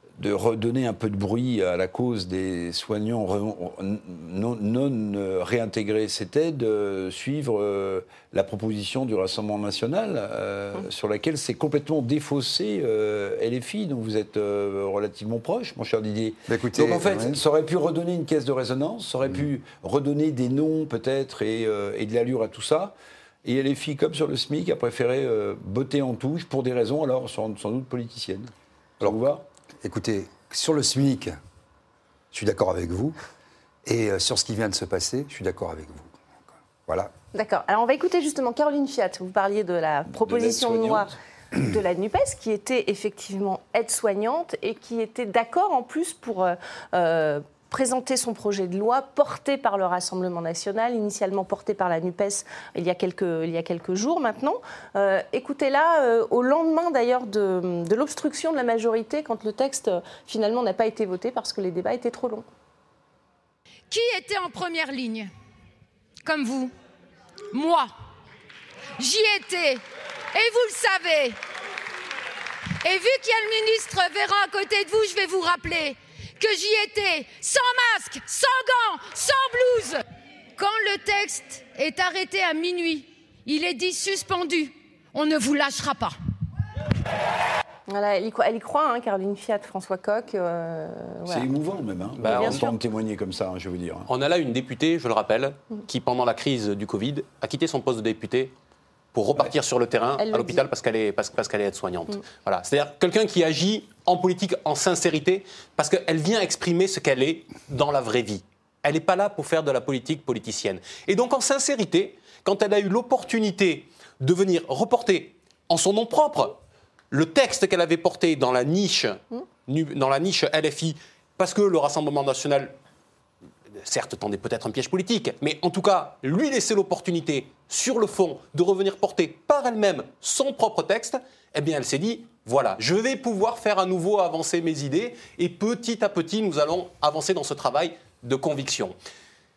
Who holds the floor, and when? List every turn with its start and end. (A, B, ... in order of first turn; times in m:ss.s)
0:00.2-0:29.4 A
0:16.5-0:17.4 B
0:29.8-0:31.4 B
0:32.3-0:33.2 B
0:33.9-0:36.2 B
0:36.9-0:37.1 B
0:37.3-1:02.4 C
0:40.1-0:41.1 A
1:03.9-1:05.3 D
1:06.2-1:06.7 D
1:07.5-1:07.9 D
1:09.0-1:09.8 D
1:10.3-1:11.4 D
1:12.8-1:20.0 D
1:20.6-1:26.2 D
1:27.9-1:31.5 C
1:31.3-1:34.1 A
1:32.2-1:32.8 C
1:32.2-1:32.6 E
1:34.1-1:38.5 E
1:39.1-1:56.6 E
1:40.2-1:40.7 C
1:57.1-2:02.7 E
2:03.8-2:19.0 E